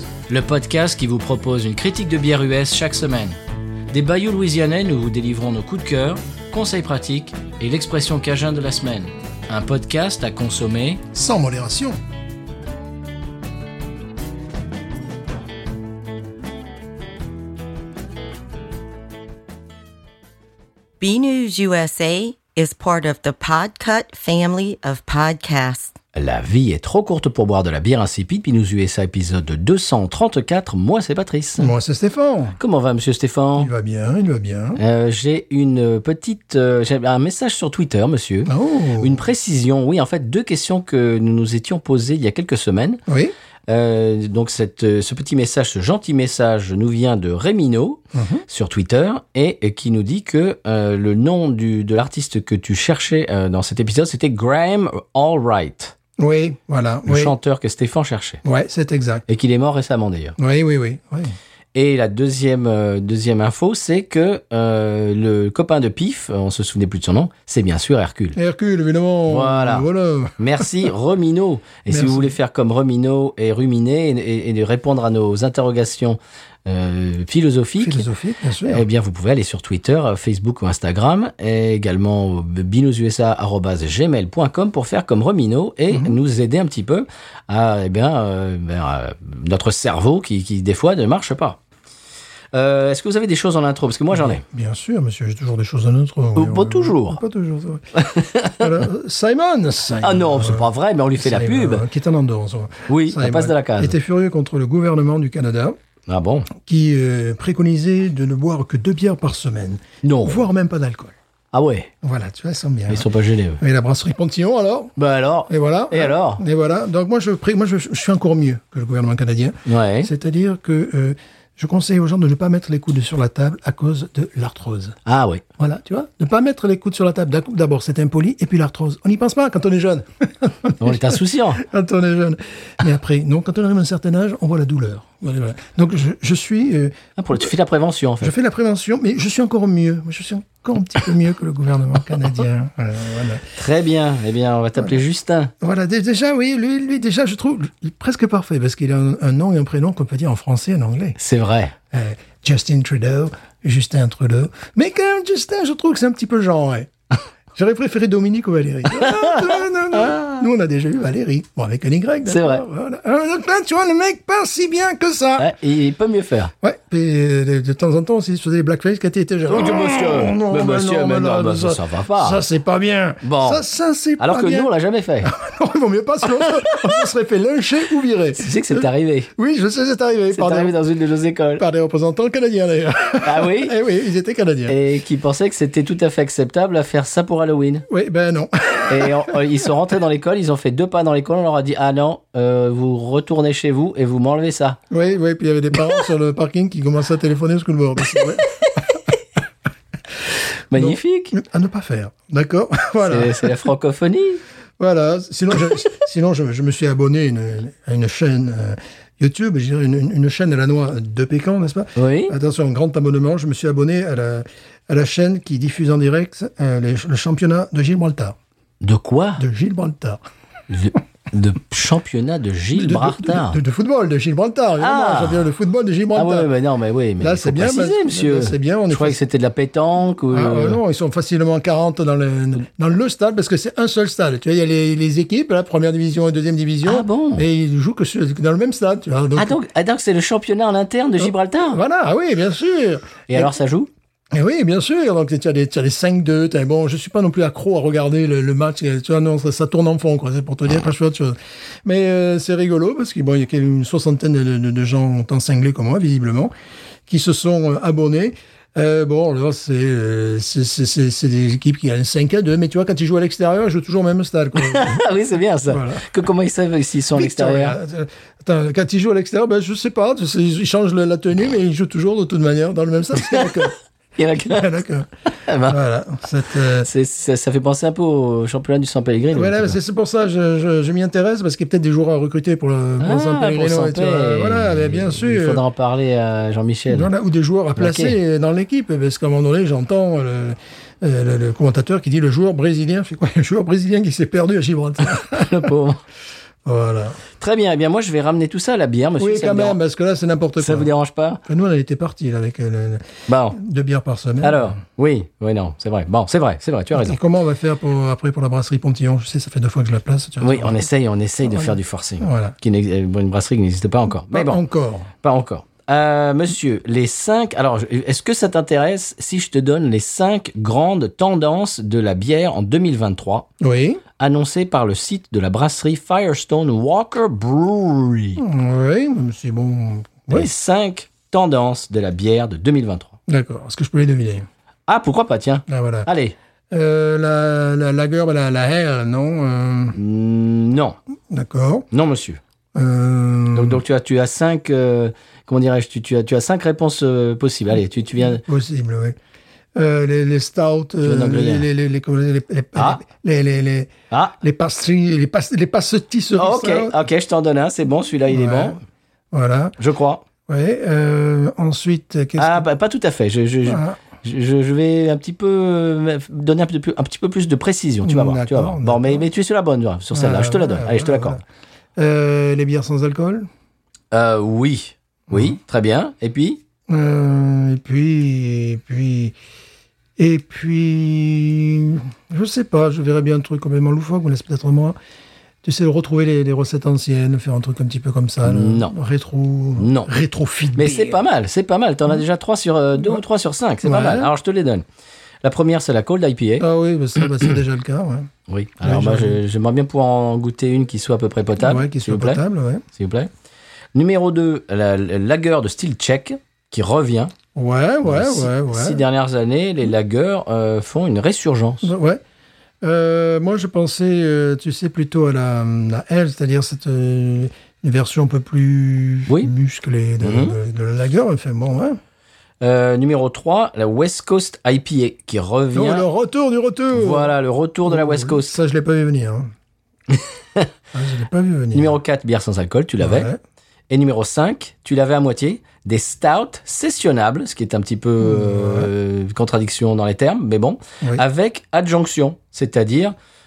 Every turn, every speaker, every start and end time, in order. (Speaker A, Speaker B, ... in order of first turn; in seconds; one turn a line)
Speaker A: 0.3-3.4
Speaker A: 3.9-11.0
Speaker B: 11.1-12.0
Speaker C: 21.0-25.9
Speaker A: 26.1-31.7
Speaker B: 31.6-32.6
Speaker A: 32.6-33.7
Speaker B: 33.6-34.8
Speaker A: 34.8-43.0
Speaker B: 38.5-39.2
Speaker B: 43.1-43.3
Speaker A: 43.7-55.9
Speaker B: 48.1-48.4
Speaker B: 56.2-57.3
Speaker A: 57.1-58.4
Speaker B: 58.4-59.2
Speaker A: 59.3-60.4
Speaker B: 60.4-61.3
Speaker A: 61.7-68.4
Speaker B: 68.3-70.9
Speaker A: 69.3-69.9
Speaker A: 70.4-78.0
Speaker B: 71.9-72.3
Speaker B: 77.8-78.8
Speaker A: 78.6-91.6
Speaker B: 85.9-86.2
Speaker A: 92.5-94.4
Speaker B: 94.1-97.8
Speaker A: 96.3-97.2
Speaker A: 97.9-98.8
Speaker B: 98.6-105.8
Speaker A: 100.0-101.8
Speaker A: 102.9-103.9
Speaker A: 106.1-106.5
Speaker B: 106.6-111.1
Speaker A: 110.0-110.4
Speaker A: 111.5-111.9
Speaker B: 112.0-113.1
Speaker A: 112.9-113.6
Speaker B: 113.6-114.9
Speaker A: 115.0-116.4
Speaker B: 115.5-125.0
Speaker A: 119.7-120.1
Speaker A: 125.0-125.4
Speaker B: 125.6-137.4
Speaker A: 130.8-131.6
Speaker A: 137.2-138.3
Speaker B: 138.2-143.4
Speaker A: 143.5-145.5
Speaker B: 145.6-151.2
Speaker A: 151.2-151.7
Speaker B: 151.9-156.9
Speaker B: 157.5-165.5
Speaker A: 158.9-160.2
Speaker A: 162.2-162.6
Speaker A: 165.4-166.5
Speaker B: 166.6-174.7
Speaker A: 169.5-172.4
Speaker A: 173.2-173.6
Speaker A: 174.2-175.3
Speaker B: 175.2-180.7
Speaker A: 176.6-176.9
Speaker A: 178.3-179.3
Speaker A: 180.3-181.6
Speaker B: 181.6-184.8
Speaker A: 183.2-183.8
Speaker A: 184.7-187.9
Speaker B: 187.9-189.7
Speaker A: 188.9-194.8
Speaker B: 194.9-199.1
Speaker A: 200.7-201.3
Speaker B: 200.7-203.7
Speaker A: 203.1-204.4
Speaker B: 204.8-218.3
Speaker A: 211.9-212.3
Speaker A: 218.8-219.4
Speaker B: 219.4-220.2
Speaker A: 220.7-223.6
Speaker B: 222.7-226.5
Speaker A: 224.8-225.5
Speaker A: 226.1-230.8
Speaker B: 227.2-229.2
Speaker B: 230.3-239.6
Speaker A: 236.8-237.4
Speaker A: 239.3-241.8
Speaker B: 241.2-243.5
Speaker A: 243.3-243.9
Speaker B: 244.3-256.5
Speaker B: 257.1-265.0
Speaker A: 264.6-267.8
Speaker B: 265.7-266.1
Speaker B: 267.1-273.7
Speaker A: 273.3-274.7
Speaker B: 274.5-275.1
Speaker A: 275.4-275.8
Speaker B: 275.7-276.9
Speaker A: 276.8-279.8
Speaker B: 279.3-285.6
Speaker A: 283.0-287.1
Speaker B: 286.9-295.7
Speaker A: 287.8-288.2
Speaker A: 295.1-296.0
Speaker B: 296.6-297.2
Speaker A: 297.4-299.8
Speaker B: 299.2-300.9
Speaker A: 300.6-301.4
Speaker B: 301.4-304.7
Speaker A: 303.3-303.6
Speaker A: 304.4-307.2
Speaker B: 306.9-310.8
Speaker A: 310.4-314.6
Speaker B: 311.4-312.6
Speaker B: 314.3-315.1
Speaker A: 315.2-323.5
Speaker B: 323.6-324.0
Speaker A: 324.2-328.4
Speaker B: 328.4-330.5
Speaker A: 330.3-333.1
Speaker B: 333.3-334.5
Speaker A: 334.9-336.3
Speaker B: 335.7-336.1
Speaker B: 336.7-340.0
Speaker A: 339.9-341.0
Speaker B: 341.3-341.9
Speaker A: 341.9-342.4
Speaker B: 342.7-343.8
Speaker A: 343.5-348.4
Speaker B: 348.2-349.2
Speaker B: 349.7-357.0
Speaker A: 351.0-351.7
Speaker A: 352.8-353.0
Speaker A: 356.4-358.8
Speaker B: 358.3-358.8
Speaker B: 359.3-359.8
Speaker A: 359.8-360.2
Speaker B: 360.5-362.7
Speaker A: 362.4-371.4
Speaker B: 363.6-364.0
Speaker B: 368.0-369.3
Speaker B: 370.1-371.4
Speaker B: 371.9-373.5
Speaker A: 374.1-376.6
Speaker B: 375.3-375.6
Speaker B: 376.9-379.3
Speaker B: 380.2-384.9
Speaker B: 385.6-391.2
Speaker A: 388.4-388.9
Speaker A: 389.8-390.1
Speaker A: 390.7-394.8
Speaker B: 393.8-394.3
Speaker A: 395.4-396.6
Speaker B: 396.6-398.3
Speaker A: 398.5-402.4
Speaker B: 398.8-399.4
Speaker B: 401.6-402.8
Speaker A: 402.9-403.3
Speaker A: 403.9-407.3
Speaker B: 407.5-409.0
Speaker A: 408.0-411.9
Speaker B: 411.8-412.2
Speaker B: 412.8-422.0
Speaker A: 420.2-420.6
Speaker A: 422.6-426.1
Speaker B: 425.7-427.3
Speaker A: 426.9-428.6
Speaker B: 427.9-429.5
Speaker A: 430.1-430.7
Speaker B: 430.9-431.9
Speaker A: 431.7-433.3
Speaker B: 433.0-433.4
Speaker A: 433.9-443.1
Speaker B: 438.2-438.9